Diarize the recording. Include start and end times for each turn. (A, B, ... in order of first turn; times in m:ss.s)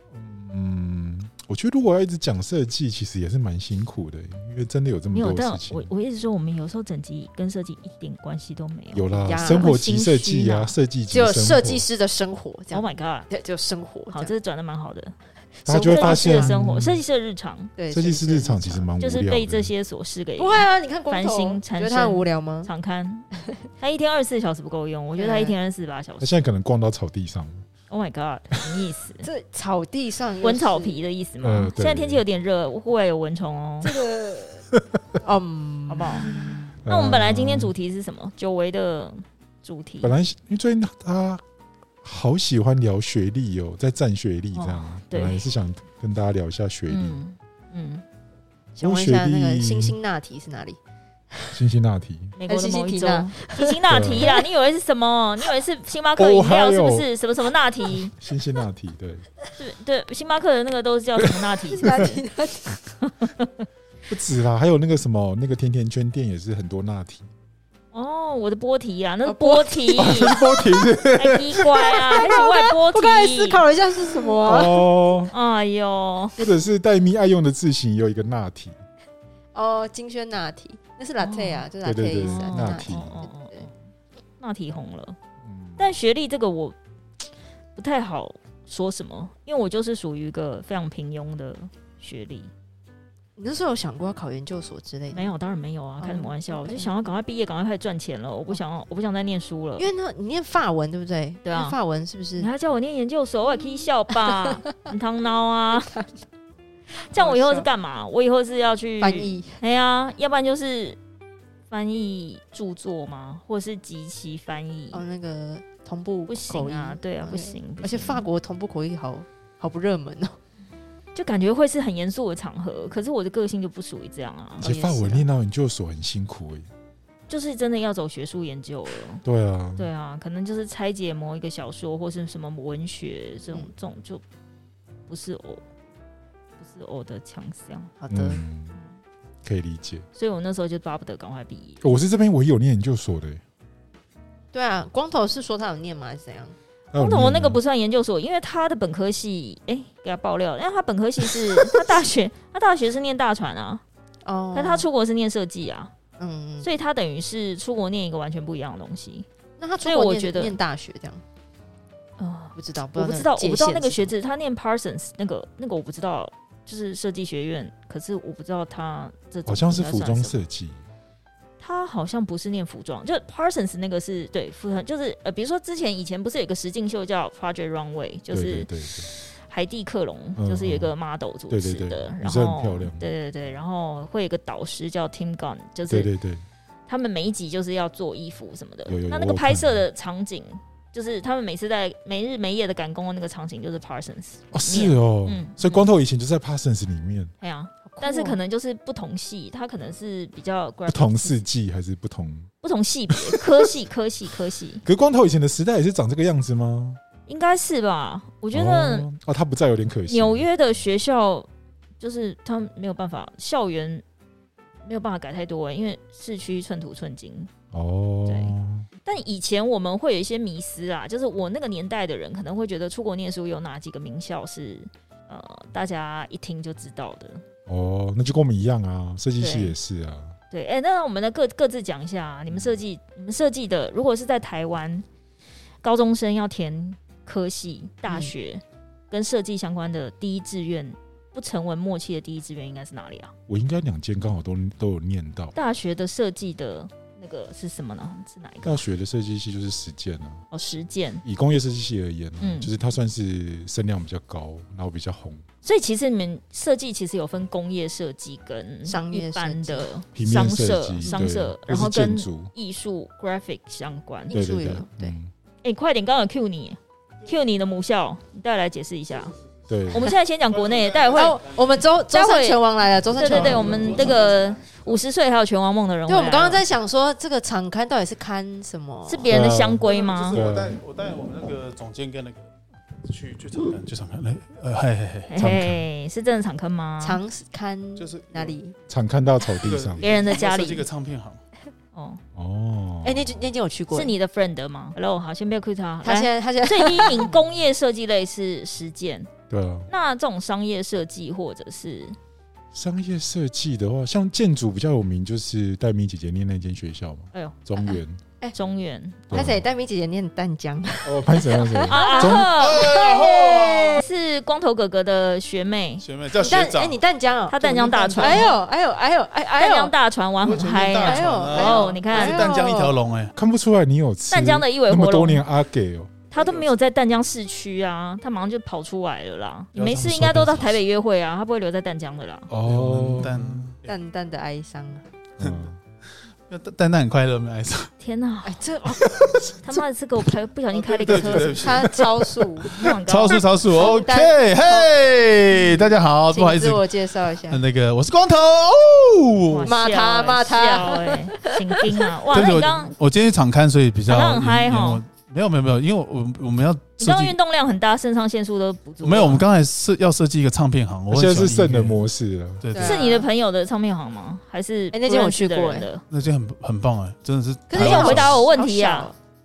0:00.1-0:05.9 A
0:05.1-0:10.7 B
0:08.9-0:11.8 A
0:09.1-0:09.6 C
0:11.1-0:14.3 C
0:12.7-0:13.3 B
0:14.1-0:15.1 B
0:15.6-0:16.5 C
0:15.7-0:17.0 A
0:15.8-0:17.7 B
0:17.8-0:18.8 C
0:17.9-0:19.7 A
0:19.0-0:23.2 B
0:20.4-0:22.7 C
0:23.8-0:26.4 B
0:25.2-0:25.5 C
0:26.2-0:27.6 A
0:27.9-0:29.2 B
0:29.2-0:31.0 C
0:30.4-0:33.9 B
0:31.4-0:32.2 A
0:33.8-0:34.6 C
0:35.2-0:36.5 C
0:35.9-0:36.3 B
0:36.4-0:37.7 A
0:36.9-0:40.1 B
0:40.0-0:41.4 A
0:42.0-0:47.2 A
0:44.5-0:45.4 B
0:46.9-0:48.0 B
0:48.7-0:50.8 C
0:48.8-0:50.0 A
0:51.5-0:52.4 A
0:52.4-0:58.1 B
0:52.4-0:54.4 C
0:53.9-0:54.3 A
0:56.2-0:57.1 A
0:58.1-0:59.3 A
0:59.6-1:02.0 B
1:01.7-1:02.8 C
1:01.8-1:02.2 A
1:03.0-1:03.6 B
1:04.1-1:07.3 A
1:07.9-1:10.4 B
1:09.2-1:10.8 C
1:09.9-1:12.0 A
1:11.1-1:13.6 B
1:12.1-1:14.8 C
1:14.2-1:15.3 A
1:15.3-1:16.4 B
1:16.4-1:18.8 A
1:19.5-1:23.6 C
1:21.2-1:21.6 B
1:21.8-1:23.1 A
1:22.2-1:23.7 B
1:24.4-1:25.2 B
1:25.4-1:25.9 A
1:25.8-1:26.7 B
1:27.8-1:32.5 B
1:33.4-1:35.3 C
1:35.1-1:39.9 B
1:36.0-1:37.0 C
1:39.8-1:42.5 C
1:41.4-1:41.8 B
1:42.4-1:45.9 B
1:45.8-1:46.2 C
1:47.1-1:51.0 B
1:47.1-1:47.7 C
1:49.0-1:49.6 C
1:51.7-1:55.0 B
1:54.9-2:00.4 C
1:56.3-1:58.2 B
2:01.1-2:04.7 B
2:04.6-2:06.7 A
2:04.6-2:05.3 C
2:07.3-2:09.2 B
2:09.2-2:09.9 A
2:09.8-2:14.2 B
2:15.1-2:15.6 B
2:16.6-2:17.9 B
2:18.0-2:18.4 C
2:18.1-2:18.8 A
2:19.4-2:20.0 A
2:20.2-2:21.8 B
2:21.8-2:23.4 A
2:24.5-2:26.5 C
2:26.9-2:27.6 A
2:26.9-2:33.8 B
2:34.2-2:34.9 C
2:34.5-2:35.9 B
2:36.2-2:36.7 C
2:36.6-2:39.2 B
2:39.6-2:41.2 C
2:39.8-2:40.6 B
2:42.2-2:50.4 B
2:42.6-2:44.1 C
2:49.4-2:50.8 A
2:51.6-3:06.1 B
2:58.3-2:59.1 A
3:00.4-3:00.9 A
3:01.5-3:03.0 A
3:05.9-3:06.4 A
3:06.9-3:15.8 B
3:08.8-3:09.8 A
3:14.5-3:17.3 A
3:17.4-3:21.4 B
3:17.8-3:18.4 C
3:20.9-3:22.5 A
3:22.6-3:24.8 B
3:24.8-3:27.0 A
3:27.3-3:29.0 B
3:28.5-3:30.5 A
3:30.1-3:31.5 B
3:32.0-3:34.0 B
3:34.8-3:37.5 B
3:37.7-3:38.8 A
3:38.3-3:38.5 B
3:39.0-3:47.4 B
3:47.7-3:50.3 A
3:49.4-3:49.7 C
3:50.5-3:55.0 B
3:55.8-4:03.3 B
3:58.0-3:58.3 C
4:03.5-4:05.5 A
4:05.5-4:08.8 B
4:08.6-4:10.4 A
4:10.5-4:11.2 B
4:11.2-4:15.4 A
4:12.4-4:12.7 B
4:15.6-4:24.4 B
4:18.8-4:19.9 C
4:20.1-4:22.5 A
4:24.3-4:25.1 C
4:24.3-4:25.3 A
4:25.6-4:29.3 B
4:29.7-4:30.1 A
4:29.9-4:31.4 B
4:31.1-4:34.1 C
4:32.1-4:32.6 B
4:33.1-4:36.6 B
4:33.3-4:34.1 D
4:36.1-4:39.3 C
4:39.1-4:40.4 B
4:39.3-4:40.8 A
4:39.8-4:42.5 D
4:43.0-4:45.3 D
4:45.3-4:47.2 B
4:45.4-4:45.8 A
4:47.0-4:48.8 C
4:48.0-4:48.5 D
4:48.9-4:50.0 A
4:49.6-4:51.4 D
4:50.0-4:50.8 B
4:51.9-4:52.2 B
4:52.3-4:53.4 A
4:53.0-4:54.1 C
4:53.9-4:59.3 B
4:56.0-4:57.3 C
4:59.5-4:59.9 A
4:59.9-5:02.2 B
5:02.7-5:08.2 A
5:07.8-5:08.6 C
5:08.5-5:09.3 B
5:09.3-5:09.6 A
5:09.3-5:14.0 C
5:11.0-5:12.6 A
5:11.9-5:13.0 B
5:12.4-5:14.0 D
5:13.9-5:16.0 B
5:16.0-5:17.0 D
5:16.3-5:19.9 C
5:17.5-5:18.5 B
5:19.6-5:22.5 B
5:20.4-5:23.3 D
5:21.0-5:22.9 C
5:23.4-5:26.2 A
5:24.3-5:25.4 B
5:26.3-5:32.5 B
5:29.8-5:30.7 D
5:30.0-5:30.6 A
5:32.5-5:33.7 A
5:32.6-5:33.9 D
5:33.8-5:35.0 C
5:35.4-5:35.8 A
5:35.4-5:35.6 D
5:36.5-5:37.9 D
5:38.0-5:38.6 B
5:38.4-5:39.5 C
5:39.6-5:41.8 B
5:40.7-5:42.0 D
5:41.1-5:42.7 C
5:41.9-5:42.9 A
5:42.7-5:43.4 B
5:42.8-5:46.9 D
5:43.3-5:44.9 C
5:45.5-5:47.6 C
5:47.4-5:49.7 D
5:49.5-5:52.9 B
5:49.6-5:52.7 C
5:52.3-5:57.4 D
5:54.1-5:55.0 B
5:57.0-5:59.4 B
5:59.0-6:01.9 D
6:01.1-6:02.6 A
6:02.6-6:03.0 D
6:02.7-6:03.3 C
6:02.8-6:06.0 B
6:04.9-6:05.9 C
6:06.1-6:08.4 D
6:07.7-6:09.2 C
6:07.7-6:09.1 B